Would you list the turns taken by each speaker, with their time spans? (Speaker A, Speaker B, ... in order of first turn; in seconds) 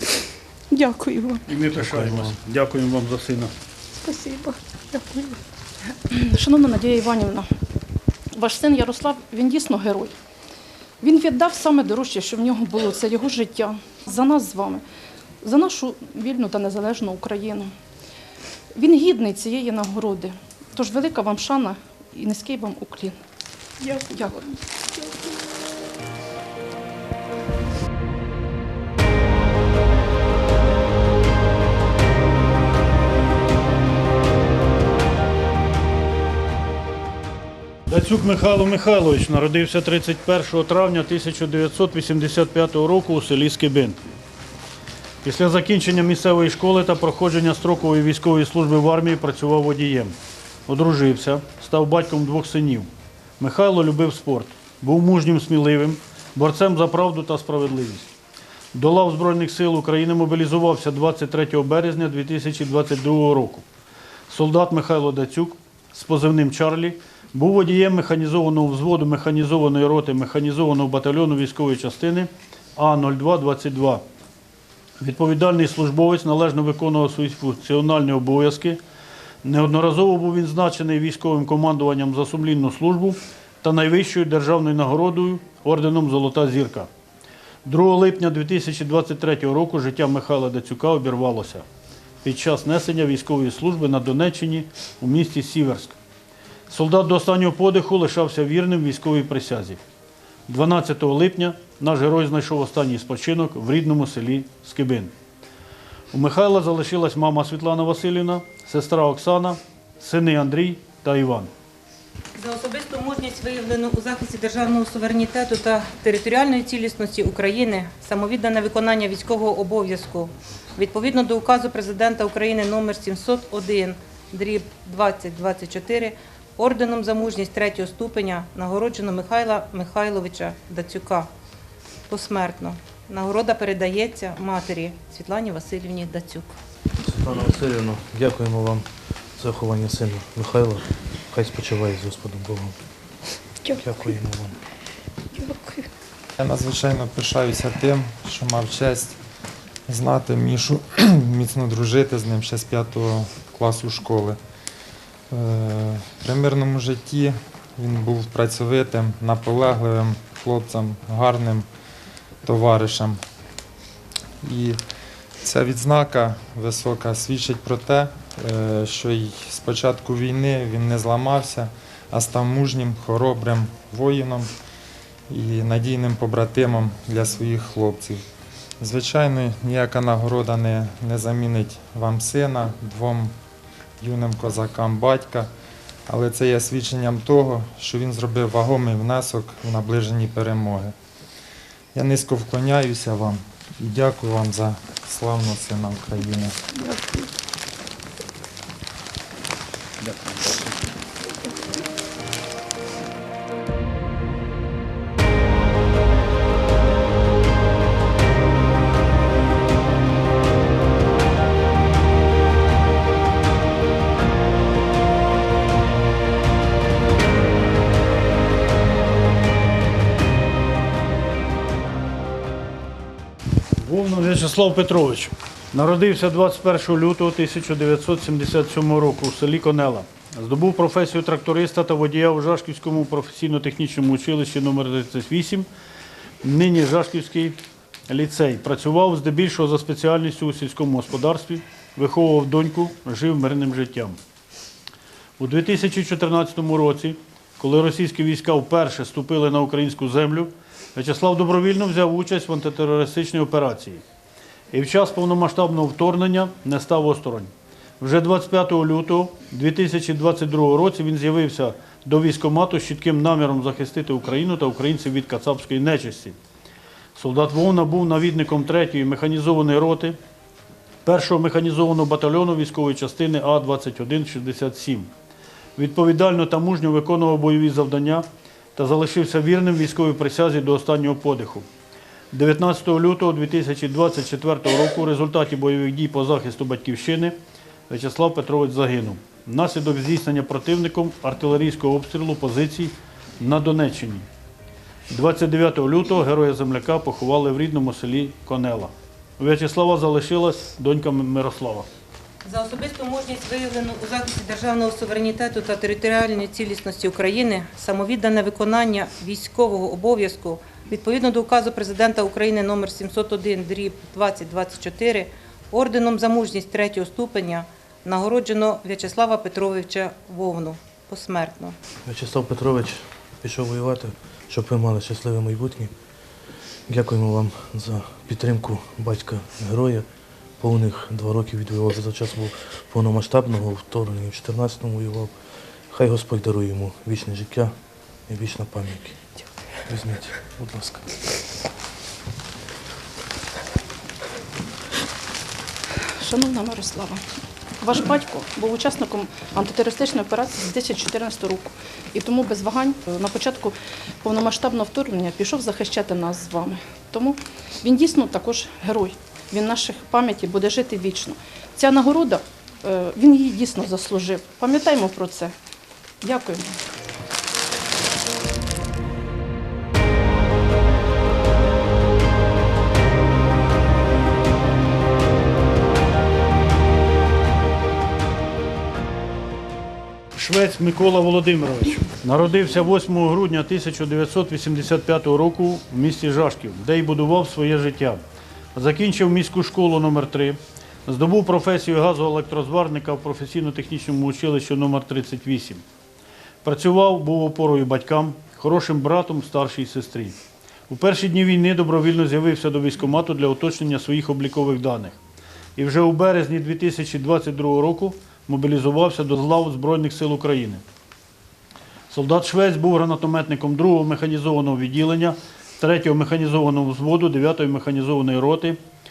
Speaker A: 0.7-1.5, 3.9-5.4, 23.8-25.3, 143.6-144.2, 145.3-145.9, 196.8-197.3
Speaker B: 1.5-3.5, 37.9-44.0, 45.2-50.1, 50.7-58.1, 58.7-63.6, 64.3-74.0, 75.0-78.8, 79.4-86.9, 87.7-91.7, 92.2-96.0, 96.7-99.8, 100.5-105.1, 106.1-111.5, 200.0-200.6, 223.8-235.7, 236.4-237.6, 238.1-244.2, 245.4-254.0, 254.7-266.4, 267.2-270.2, 271.1-275.1, 275.8-281.7, 282.3-287.4, 287.9-294.3, 295.1-301.9, 380.4-388.2, 388.8-395.8, 396.6-400.4, 400.9-405.2, 405.8-410.8, 412.1-418.8
Speaker C: 1.8-2.4, 137.0-142.8, 143.8-144.6, 322.1-325.9, 326.9-330.1, 330.6-335.4, 335.9-337.7, 338.3-339.2, 339.9-341.1
Speaker D: 6.1-7.5, 8.3-10.1, 11.0-14.8, 15.4-17.7, 18.7-23.2, 24.1-24.4, 346.2-347.2, 347.8-365.6, 366.2-366.8
Speaker E: 112.4-131.3, 132.1-136.6, 302.4-321.8
Speaker F: 146.4-149.2, 149.9-154.4, 155.3-161.7, 162.4-163.2, 164.4-164.8, 165.4-174.5, 175.3-178.2, 178.8-183.3, 184.0-185.5, 186.1-190.9, 191.9-196.6